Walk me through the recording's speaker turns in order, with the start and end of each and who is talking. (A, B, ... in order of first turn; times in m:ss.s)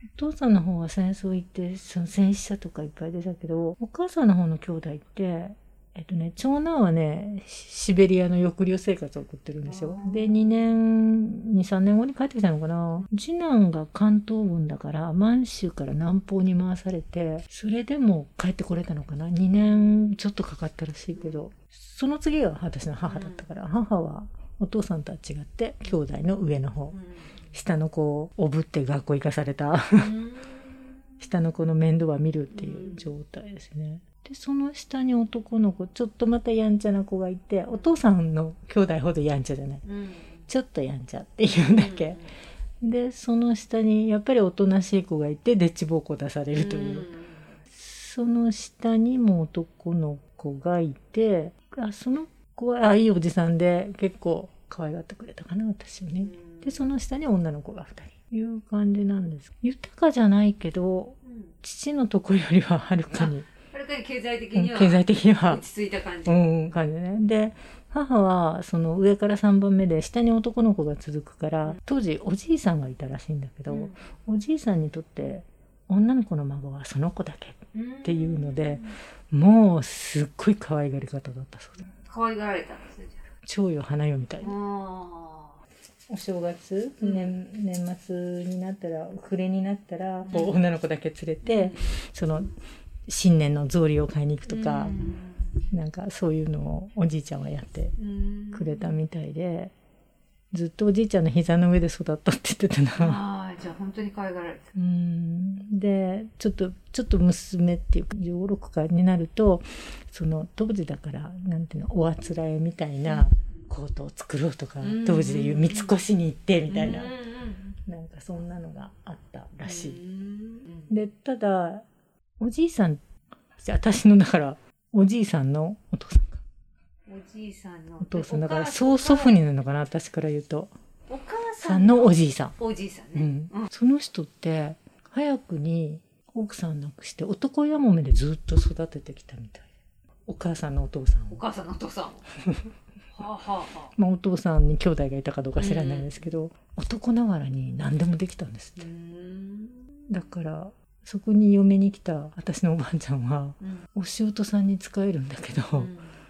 0:00.1-0:27.0 A
0:09.6-0:10.6 B
0:21.2-0:21.4 B
0:23.1-0:23.4 B
0:26.9-0:27.3 B
0:27.5-0:30.1 A
0:29.9-0:31.1 B
0:31.2-0:39.8 A
0:32.5-0:33.1 B
0:39.8-0:40.4 B
0:40.5-0:42.2 A
0:41.7-0:42.3 B
0:42.8-0:47.1 A
0:46.5-0:47.6 B
0:47.7-1:03.5 A
0:56.2-0:56.9 B
1:01.2-1:01.5 B
1:03.2-1:06.4 B
1:04.5-1:05.6 A
1:06.2-1:21.8 A
1:13.7-1:14.0 B
1:17.7-1:19.0 B
1:22.0-1:23.2 B
1:23.4-1:24.5 A
1:24.4-1:25.6 B
1:26.1-1:32.5 A
1:27.0-1:27.3 B
1:30.2-1:30.6 B
1:31.4-1:32.0 B
1:33.0-1:35.0 A
1:34.5-1:35.5 B
1:35.7-1:37.9 A
1:38.0-1:38.9 B
1:38.5-1:39.7 A
1:40.5-1:43.2 A
1:43.0-1:44.7 B
1:44.7-1:57.1 A
1:54.8-1:56.0 B
1:56.7-1:57.8 B
1:57.8-2:00.0 A
1:59.6-2:00.9 B
2:00.9-2:01.8 A
2:02.4-2:03.0 A
2:03.6-2:06.4 A
2:07.1-2:09.3 B
2:08.0-2:10.7 A
2:11.1-2:13.7 B
2:11.6-2:12.5 A
2:13.1-2:19.7 A
2:20.2-2:21.4 A
2:21.3-2:22.2 B
2:23.1-2:23.9 B
2:24.0-2:28.9 A
2:25.6-2:26.2 B
2:28.8-2:30.1 B
2:30.1-2:35.9 A
2:33.6-2:33.9 B
2:35.7-2:36.2 B